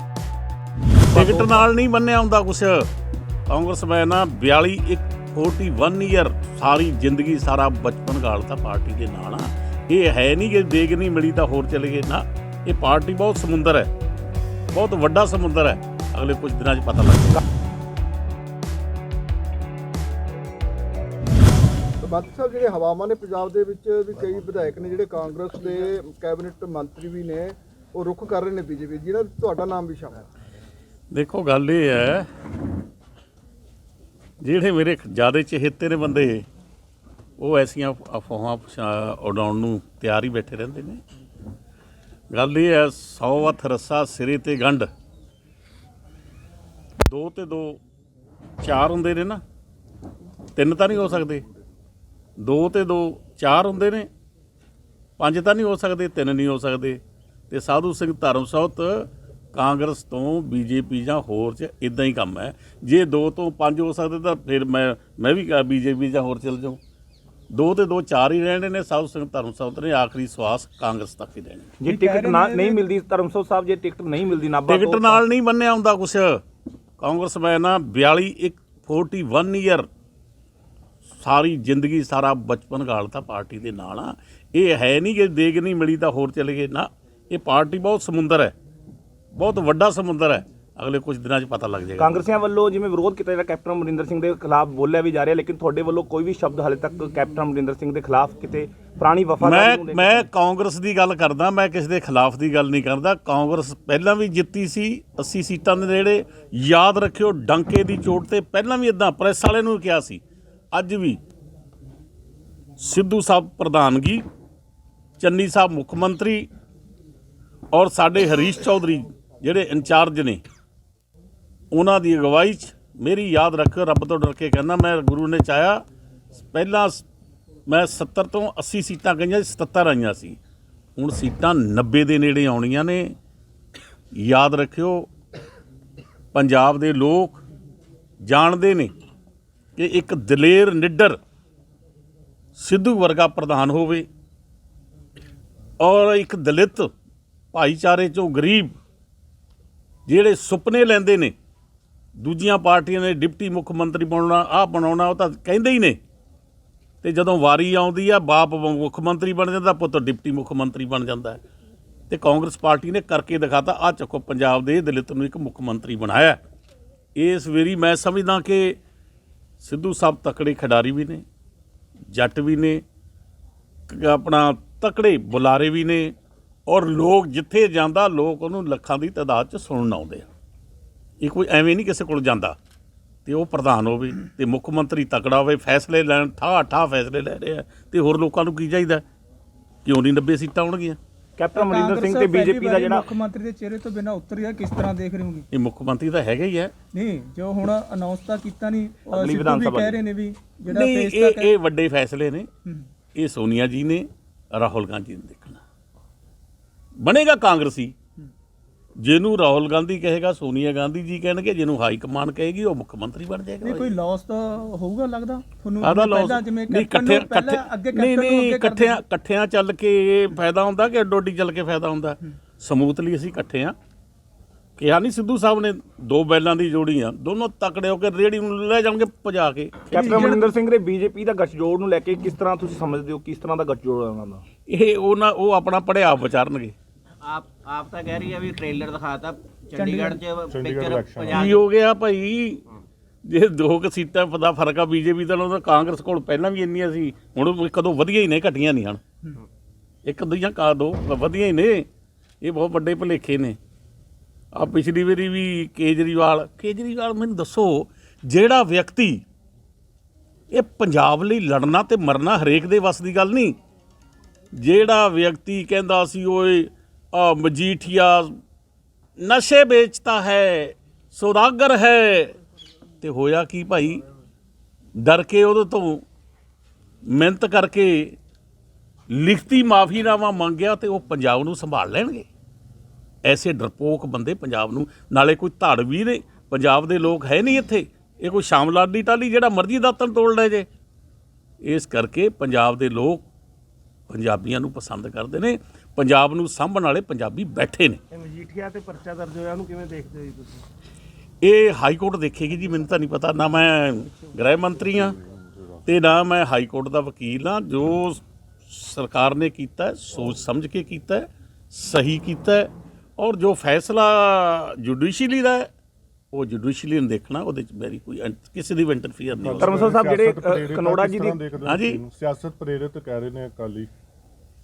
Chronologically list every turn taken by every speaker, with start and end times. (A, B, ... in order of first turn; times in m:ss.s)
0:01.1-0:02.9 A
0:01.1-0:01.6 B
0:03.5-0:13.9 A
0:14.7-0:17.4 A
0:22.0-0:30.3 C
0:31.1-0:32.3 A
0:34.4-0:36.4 A
0:37.4-0:41.0 A
0:42.3-0:44.9 A
0:47.0-0:47.8 A
0:48.6-0:49.4 A
0:50.6-0:51.4 A
0:52.4-0:54.1 A
0:55.2-0:57.0 A
0:57.5-1:06.8 A
1:07.5-1:11.7 A
1:11.8-1:15.2 B
1:11.8-1:12.9 D
1:14.7-1:16.4 A
1:17.0-1:19.9 A
1:21.2-1:28.5 A
1:29.3-1:32.2 A
1:32.0-1:40.2 B
1:39.4-1:50.2 A
1:50.7-1:51.2 A
1:52.8-1:54.2 A
1:55.2-1:56.5 A
1:57.7-2:00.4 A
2:01.7-2:05.8 A
2:06.3-2:07.0 A
2:07.7-2:10.4 A
2:11.0-2:13.1 A
2:14.2-2:15.1 A
2:16.3-2:17.4 A
2:18.3-2:18.9 A
2:19.8-2:21.2 A
2:22.6-2:24.1 A
2:25.8-2:26.9 A
2:27.5-2:28.8 A
2:30.1-2:31.3 A
2:32.2-2:36.0 A
2:37.0-2:41.4 A
2:42.1-2:46.4 A
2:47.2-2:48.8 A
2:49.6-2:51.2 A
2:52.1-2:52.8 A
2:53.9-2:56.1 A
2:56.7-3:00.3 A
3:01.2-3:02.6 A
3:03.2-3:09.0 A
3:09.8-3:11.0 A
3:11.4-3:13.1 B
3:11.5-3:15.4 D
3:15.5-3:16.7 A
3:16.9-3:21.5 D
3:19.1-3:20.0 B
3:20.7-3:22.5 A
3:23.1-3:25.6 A
3:27.0-3:27.9 A
3:29.0-3:33.9 A
3:33.6-3:39.0 D
3:35.8-3:43.7 A
3:44.8-3:50.2 A
3:49.9-3:54.4 B
3:49.9-3:50.5 D
3:54.7-3:56.7 A
3:57.2-4:01.4 E
3:59.7-4:00.2 D
4:00.5-4:01.4 F
4:01.3-4:02.6 A
4:03.2-4:09.0 A
4:10.0-4:11.9 A
4:12.4-4:13.6 A
4:14.5-4:19.2 A
4:20.5-4:23.5 A
4:24.5-4:28.3 A
4:29.2-4:32.3 A
4:33.0-4:34.0 A
4:35.0-4:36.0 A
4:37.1-4:38.2 A
4:39.1-4:42.3 A
4:43.2-4:50.7 A
4:51.6-4:53.2 A
4:54.1-4:58.0 A
4:58.1-5:00.6 G
5:01.4-5:05.2 A
5:05.8-5:15.7 A
5:16.3-5:19.8 A
5:19.3-5:23.9 F
5:19.6-5:21.4 B
5:21.6-5:22.0 A